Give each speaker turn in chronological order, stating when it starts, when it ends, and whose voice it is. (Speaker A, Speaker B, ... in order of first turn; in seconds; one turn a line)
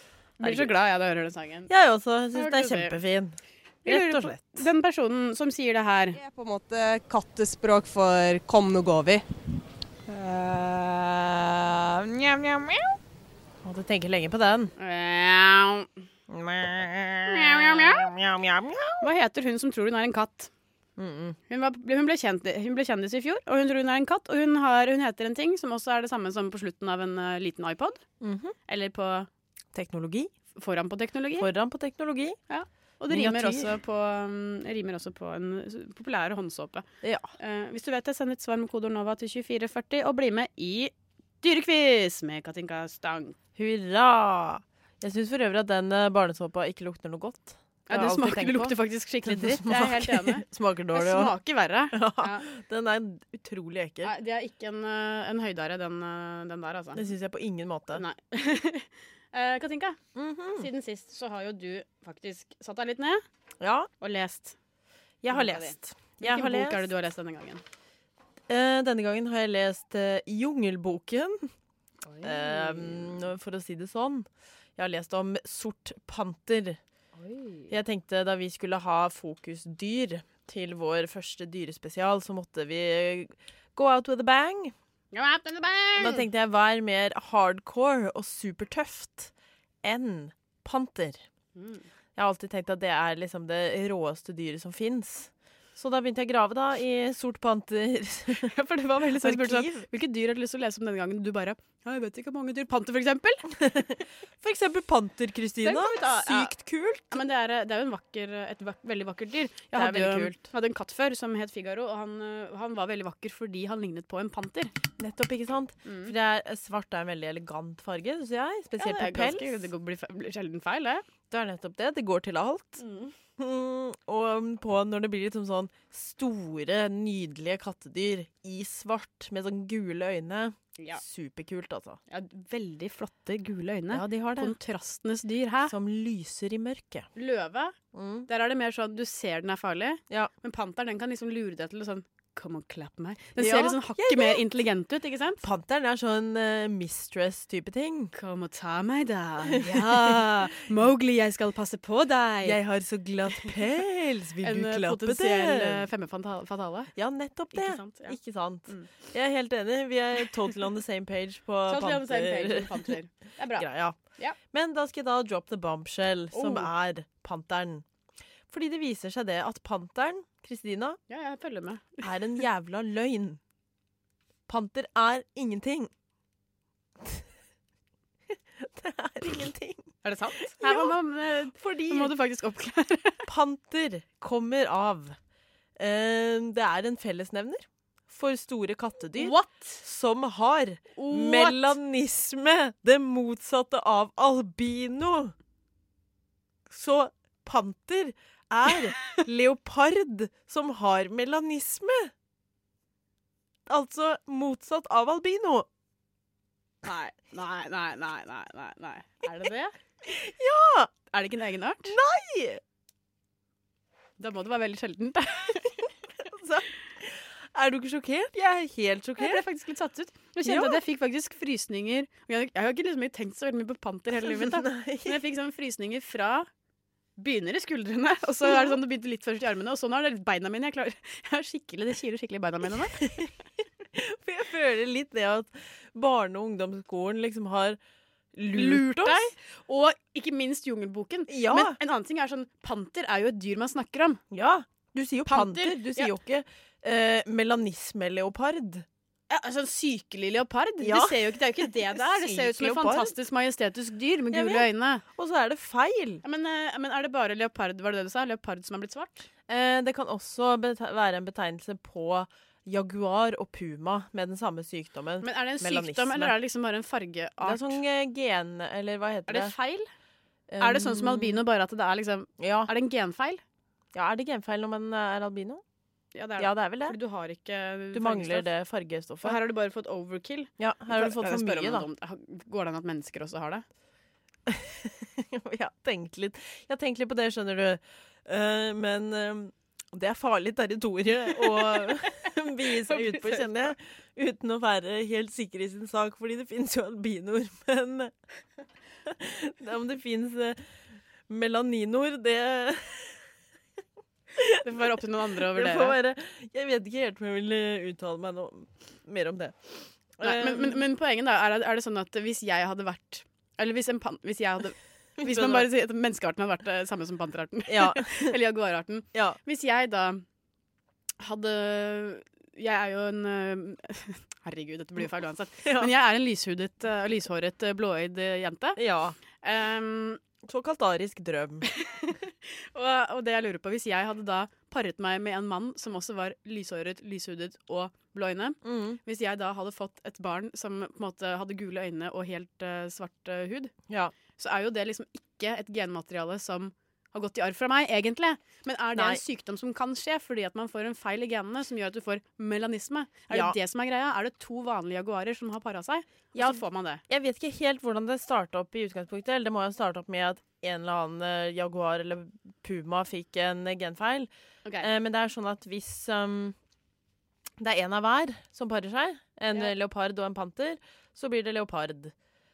Speaker A: 0.4-1.7
Speaker B: 0.4-0.7
Speaker B: 1.7-4.7
Speaker A: 2.4-3.0
Speaker A: 3.8-6.2
Speaker C: 6.2-9.2
Speaker C: 10.1-12.8
Speaker B: 13.6-14.7
Speaker A: 14.8-15.9
Speaker B: 16.3-19.1
Speaker A: 17.3-18.1
Speaker A: 19.0-20.5
Speaker B: 21.0-21.4
Speaker A: 21.5-28.0
Speaker B: 28.2-28.6
Speaker A: 28.7-29.3
Speaker B: 29.7-30.3
Speaker A: 30.6-31.5
Speaker B: 31.4-32.4
Speaker A: 32.5-36.9
Speaker B: 33.1-33.7
Speaker B: 37.0-37.3
Speaker A: 37.4-43.4
Speaker B: 43.6-51.4
Speaker A: 47.9-52.5
Speaker B: 51.9-54.1
Speaker A: 54.0-57.0
Speaker B: 56.9-58.0
Speaker A: 57.9-60.0
Speaker B: 60.1-60.7
Speaker A: 60.5-63.2
Speaker B: 63.6-63.9
Speaker A: 64.0-64.6
Speaker B: 65.2-66.9
Speaker A: 65.3-67.6
Speaker B: 68.5-71.5
Speaker A: 72.2-73.0
Speaker B: 72.2-76.8
Speaker B: 77.7-84.7
Speaker A: 85.1-86.3
Speaker B: 86.0-89.3
Speaker B: 89.8-91.2
Speaker A: 91.6-91.8
Speaker B: 92.2-98.5
Speaker A: 98.3-103.5
Speaker B: 99.2-99.9
Speaker B: 103.6-107.2
Speaker A: 105.6-106.5
Speaker A: 107.1-114.7
Speaker B: 109.7-110.4
Speaker B: 115.0-119.6
Speaker A: 115.8-116.1
Speaker A: 118.8-121.0
Speaker B: 121.3-122.8
Speaker A: 122.8-123.1
Speaker B: 123.4-132.0
Speaker A: 132.1-135.7
Speaker B: 133.9-134.6
Speaker B: 135.7-137.1
Speaker A: 137.2-137.8
Speaker B: 137.9-138.3
Speaker A: 138.3-145.4
Speaker B: 143.4-144.4
Speaker B: 145.4-148.1
Speaker A: 148.1-152.6
Speaker B: 149.5-150.3
Speaker B: 152.4-155.9
Speaker A: 154.4-156.9
Speaker B: 156.9-162.9
Speaker A: 157.5-158.2
Speaker A: 158.7-158.9
Speaker A: 161.7-163.7
Speaker B: 163.6-164.0
Speaker B: 164.5-167.9
Speaker A: 166.3-166.7
Speaker B: 168.5-171.0
Speaker A: 171.1-172.1
Speaker B: 172.0-173.4
Speaker B: 174.5-175.9
Speaker B: 178.6-182.2
Speaker A: 180.0-183.2
Speaker B: 183.3-185.2
Speaker B: 185.8-195.3
Speaker A: 189.2-189.8
Speaker A: 190.9-191.8
Speaker B: 196.7-202.1
Speaker B: 203.7-205.7
Speaker A: 206.8-209.7
Speaker B: 210.1-210.9
Speaker A: 211.1-211.9
Speaker B: 211.8-212.6
Speaker A: 214.2-215.9
Speaker B: 216.2-219.4
Speaker A: 219.2-226.5
Speaker B: 220.4-220.8
Speaker B: 224.2-225.2
Speaker A: 227.2-233.2
Speaker B: 228.4-228.8
Speaker B: 233.0-233.3
Speaker B: 233.9-237.8
Speaker B: 238.3-239.3
Speaker A: 238.5-244.2
Speaker B: 241.3-241.8
Speaker B: 244.3-248.9
Speaker A: 245.3-246.1
Speaker A: 249.3-255.0
Speaker B: 250.8-253.1
Speaker B: 254.3-256.2
Speaker A: 256.2-259.3
Speaker B: 259.5-266.4
Speaker A: 265.2-267.8
Speaker B: 267.4-269.5
Speaker A: 269.3-269.9
Speaker B: 270.5-271.4
Speaker A: 270.6-273.4
Speaker B: 272.4-272.7
Speaker B: 273.9-275.6
Speaker A: 276.1-278.5
Speaker B: 276.4-277.0
Speaker B: 277.9-279.4
Speaker A: 279.2-283.6
Speaker B: 280.6-281.9
Speaker B: 284.5-298.1
Speaker A: 291.5-293.7
Speaker B: 299.1-300.6
Speaker B: 301.3-303.2
Speaker B: 304.3-304.9
Speaker A: 304.6-306.0
Speaker B: 305.4-310.9
Speaker A: 310.2-320.2
Speaker B: 315.2-315.7
Speaker B: 317.7-318.4
Speaker B: 319.1-319.4
Speaker A: 321.2-328.8
Speaker B: 325.6-325.9
Speaker B: 328.8-329.2
Speaker A: 329.4-330.2
Speaker B: 330.4-331.7
Speaker A: 331.7-343.7
Speaker B: 338.6-339.0
Speaker B: 343.9-344.1
Speaker A: 344.4-357.0
Speaker B: 348.9-349.2
Speaker B: 353.3-353.6
Speaker B: 356.4-366.6
Speaker B: 367.6-372.1